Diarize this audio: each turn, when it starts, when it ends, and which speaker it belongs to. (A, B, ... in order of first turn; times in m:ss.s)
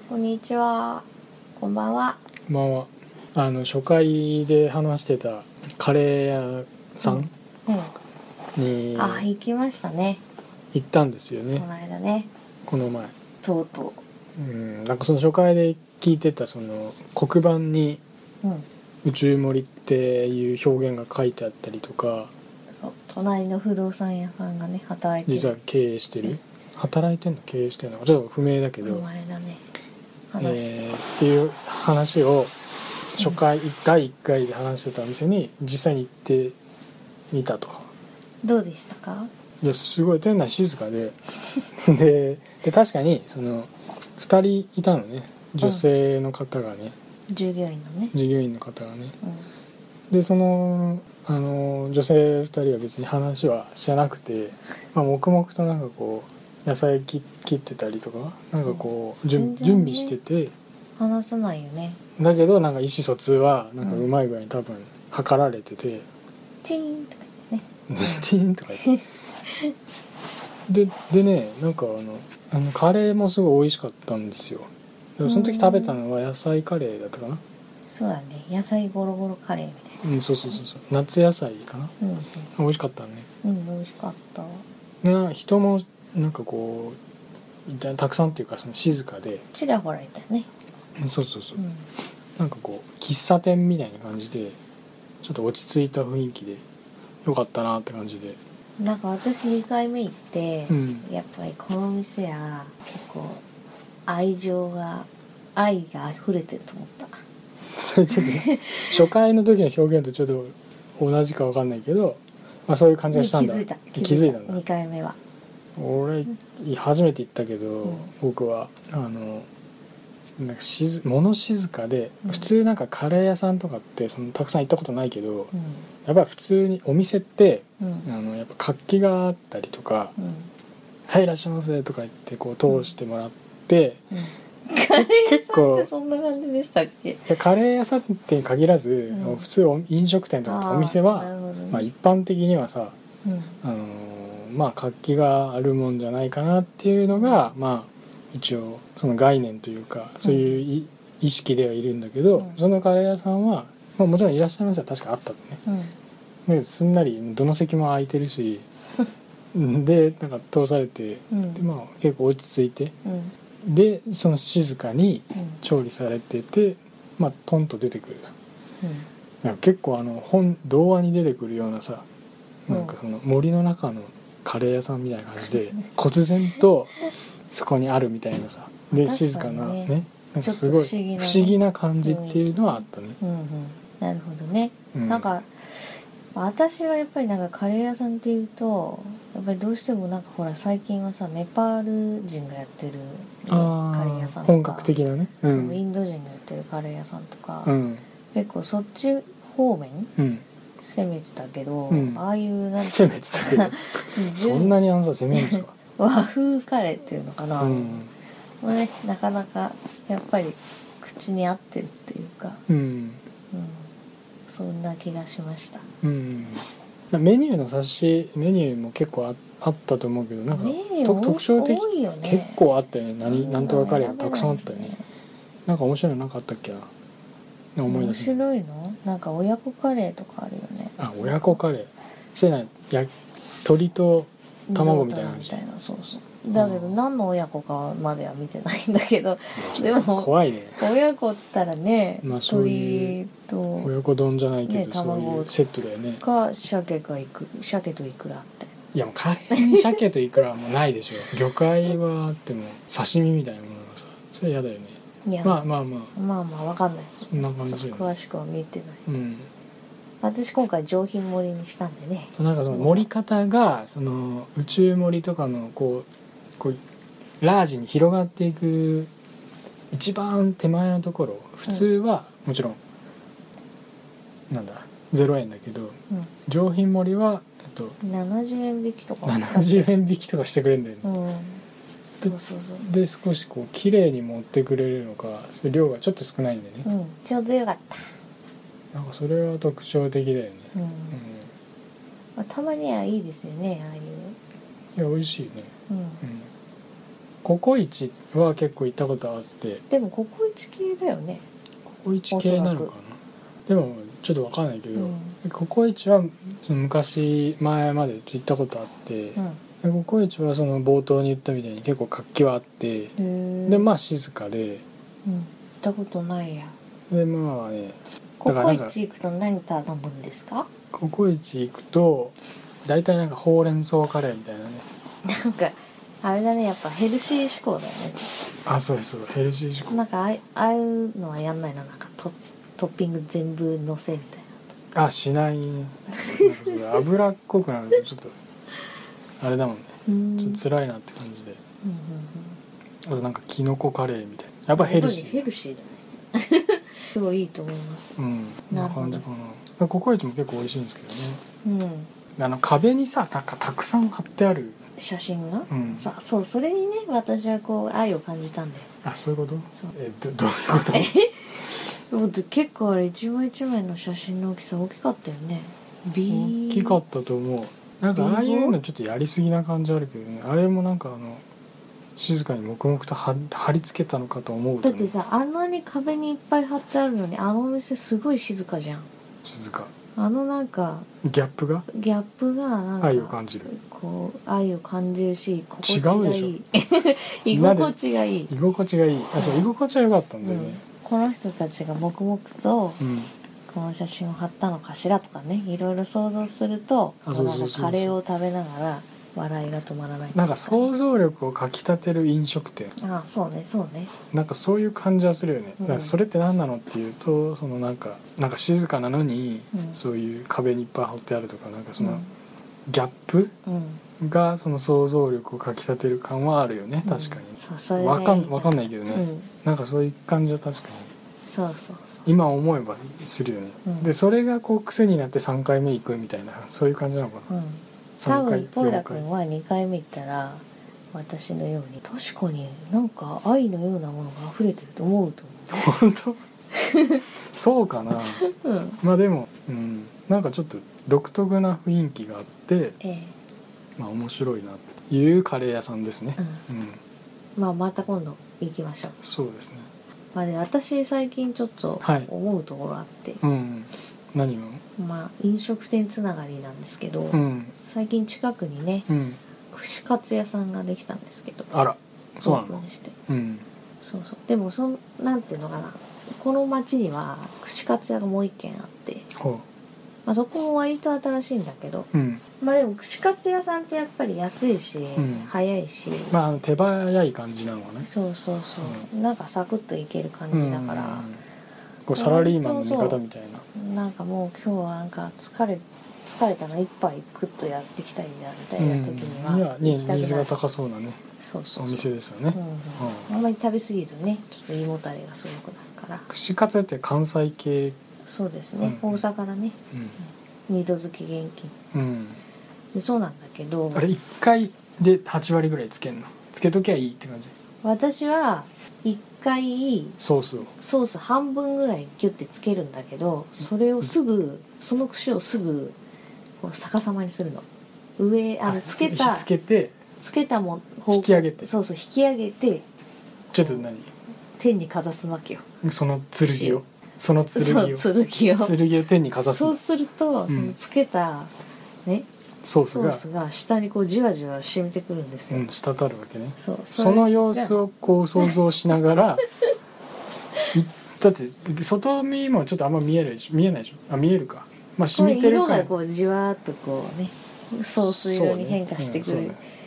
0:00.1-0:01.0 A
0:01.6-0:02.2 A
0:02.5-0:07.3 B
0:07.0-0:07.9 A
0:08.6-0:09.3 B
0:08.9-0:10.2 A
0:10.7-0:11.6 B
0:11.5-0:12.3 A
0:12.7-0:13.1 B
0:13.4-0:14.0 A
0:14.4-0:18.0 B
0:18.4-0:18.7 A
0:19.0-0:22.3 B
0:22.8-0:25.5 A
0:25.3-0:29.0 B
0:28.8-0:29.6 A
0:30.3-0:30.8 A
0:30.4-0:32.5 B
0:33.1-0:36.6 B
0:37.3-0:37.9 B
0:38.4-0:39.3 A
0:39.6-0:41.2 B
0:41.7-0:46.9 B
0:47.3-0:48.1 A
0:48.1-0:49.2 B
0:49.2-0:49.5 A
0:50.1-1:00.5 B
0:59.3-1:00.2 A
1:01.0-1:02.0 A
1:02.2-1:06.0 B
1:06.6-1:08.2 A
1:07.9-1:08.8 B
1:08.8-1:09.7 A
1:10.7-1:17.4 B
1:15.2-1:16.0 A
1:17.9-1:20.0 A
1:20.0-1:21.9 B
1:22.0-1:22.5 A
1:22.6-1:23.3 B
1:23.4-1:24.6 A
1:25.0-1:27.0 B
1:27.6-1:29.4 B
1:29.5-1:30.5 A
1:31.0-1:31.6 B
1:31.6-1:31.9 A
1:32.4-1:34.6 B
1:35.2-1:36.6 B
1:37.2-1:38.4 B
1:38.8-1:43.4 A
1:40.7-1:41.0 B
1:44.0-1:47.2 A
1:47.7-1:54.6 B
1:48.1-1:49.0 A
1:53.1-1:55.2 A
1:55.8-1:59.5 B
2:00.4-2:05.5 B
2:05.5-2:05.8 A
2:06.0-2:10.1 B
2:07.8-2:08.1 A
2:10.2-2:10.5 A
2:11.1-2:14.0 B
2:14.1-2:17.3 A
2:14.9-2:15.9 B
2:17.3-2:22.9 B
2:19.1-2:19.4 A
2:20.4-2:21.9 A
2:23.2-2:23.6 A
2:23.6-2:35.6 B
2:27.1-2:27.5 A
2:30.2-2:30.6 A
2:35.6-2:35.9 A
2:36.4-2:38.6 B
2:39.5-2:42.9 B
2:41.3-2:41.6 A
2:43.0-2:43.3 A
2:43.6-2:48.3 B
2:48.8-2:49.1 A
2:49.4-2:52.0 B
2:52.7-2:57.0 B
2:52.7-2:52.9 A
2:55.5-2:55.9 A
2:57.5-3:03.2 B
2:58.9-3:14.9 A
3:04.9-3:05.3 B
3:13.5-3:15.8 B
3:15.4-3:17.7 A
3:17.6-3:18.0 B
3:18.3-3:20.1 A
3:20.2-3:20.4 B
3:20.8-3:24.8 A
3:21.9-3:22.2 B
3:22.8-3:25.7 B
3:25.3-3:28.0 A
3:27.6-3:28.1 B
3:28.6-3:32.6 A
3:32.7-3:33.2 B
3:33.5-3:33.9 A
3:34.5-3:35.8 A
3:36.0-3:45.0 B
3:40.5-3:42.6 A
3:43.2-3:45.0 A
3:45.6-3:46.9 B
3:47.7-3:48.4 B
3:47.9-3:51.6 A
3:51.0-3:53.1 B
3:53.6-3:55.6 B
3:54.7-4:03.9 A
3:56.5-3:57.0 B
3:59.6-4:00.9 B
4:02.2-4:03.2 B
4:03.8-4:06.2 B
4:04.6-4:05.5 A
4:06.2-4:08.7 A
4:08.9-4:16.1 B
4:09.5-4:10.0 A
4:15.2-4:15.6 A
4:16.1-4:19.0 A
4:17.3-4:18.1 B
4:19.0-4:19.5 B
4:20.2-4:23.0 A
4:22.4-4:26.1 B
4:27.4-4:29.1 B
4:29.9-4:32.8 B
4:34.5-4:38.0 B
4:38.0-4:39.9 A
4:39.2-4:41.1 B
4:41.0-4:41.6 A
4:42.2-4:42.9 A
4:42.2-4:46.8 B
4:46.8-4:48.1 A
4:48.9-4:51.5 B
4:50.7-4:51.2 A
4:52.4-4:54.4 A
4:54.9-4:55.7 B
4:55.9-4:56.2 A
4:56.2-4:56.5 B
4:57.4-4:59.8 B
4:59.9-5:01.4 A
5:01.9-5:13.1 B
5:02.3-5:02.9 A
5:05.0-5:05.4 A
5:13.2-5:13.9 A
5:13.7-5:14.8 B
5:15.2-5:16.7 A
5:17.1-5:18.9 B
5:18.4-5:20.7 A
5:20.9-5:24.8 B
5:25.2-5:28.3 A
5:28.6-5:30.0 B
5:29.9-5:34.5 A
5:34.9-5:38.3 B
5:36.2-5:36.8 A
5:39.4-5:41.6 B
5:40.0-5:40.6 A
5:41.8-5:42.6 A
5:43.0-5:45.4 B
5:44.7-5:48.2 A
5:48.2-5:51.4 B
5:48.7-5:49.2 A
5:51.6-5:52.1 A
5:52.4-5:54.8 B
5:55.0-5:58.9 A
5:55.7-5:56.1 B
5:59.0-6:01.1 B
6:00.8-6:07.0 A
6:06.3-6:11.4 B
6:08.1-6:08.8 A
6:12.2-6:15.1 B
6:14.8-6:19.1 A
6:19.4-6:19.9 B
6:20.2-6:21.1 A
6:21.2-6:21.9 B
6:21.9-6:28.5 A
6:23.0-6:23.7 B
6:25.8-6:26.5 B
6:27.5-6:27.9 B
6:28.5-6:30.8 B
6:29.4-6:29.6 A
6:30.4-6:33.0 A
6:33.0-6:33.3 B
6:33.7-6:40.9 A
6:37.2-6:38.2 B
6:40.3-6:42.9 B
6:43.0-6:44.1 A
6:44.3-6:52.2 B
6:45.8-6:46.1 A
6:49.7-6:50.0 A
6:52.0-6:52.3 A
6:52.9-6:53.5 B
6:53.6-6:54.0 A
6:54.2-7:01.1 B
6:57.0-6:59.5 A
7:01.4-7:02.2 A
7:02.2-7:07.5 B
7:03.8-7:04.1 A
7:07.5-7:15.8 A
7:08.2-7:09.2 B
7:15.7-7:16.4 B
7:16.7-7:17.2 A
7:17.5-7:18.4 B
7:18.3-7:19.0 A
7:19.0-7:23.0 B
7:23.0-7:23.3 A
7:24.0-7:27.0 B
7:26.4-7:26.6 A
7:27.6-7:29.1 A
7:29.2-7:29.9 B
7:30.3-7:33.4 A
7:32.0-7:32.3 B
7:33.4-7:34.8 B
7:35.0-7:39.1 A
7:37.3-7:37.7 B
7:39.1-7:39.4 B
7:39.7-7:41.7 A
7:41.7-7:43.6 B
7:42.4-7:43.1 A
7:44.0-7:49.3 A
7:49.3-7:49.6 B
7:50.2-7:52.1 A
7:52.1-7:52.4 B
7:52.6-7:56.4 A
7:55.2-7:55.5 B
7:56.3-7:58.1 B
7:58.0-8:01.3 A
8:00.5-8:01.4 B
8:02.1-8:03.6 B
8:02.1-8:03.2 A
8:03.7-8:10.5 A
8:08.8-8:11.2 B
8:11.4-8:16.3 A
8:11.8-8:13.3 B
8:16.3-8:18.0 B
8:18.2-8:19.8 A
8:18.8-8:19.2 B
8:20.7-8:22.1 A
8:21.9-8:22.4 B
8:22.9-8:24.1 A
8:23.9-8:27.5 B
8:27.8-8:30.2 A
8:30.2-8:30.7 B
8:30.8-8:36.0 A
8:33.6-8:34.1 B
8:36.6-8:37.6 A
8:38.2-8:39.5 A
8:38.6-8:39.9 B
8:40.2-8:42.8 A
8:41.1-8:41.7 B
8:43.5-8:43.8 A
8:43.5-8:44.1 B
8:44.6-8:45.6 A
8:45.8-8:48.0 B
8:46.4-8:46.8 A
8:47.5-8:48.7 A
8:48.6-8:49.8 B
8:49.5-8:51.5 A
8:50.5-8:50.7 B
8:52.6-8:53.2 B
8:52.8-8:55.6 A
8:55.5-8:59.4 B
8:56.6-8:57.8 A
9:00.7-9:05.9 B
9:05.1-9:09.6 A
9:08.0-9:09.6 B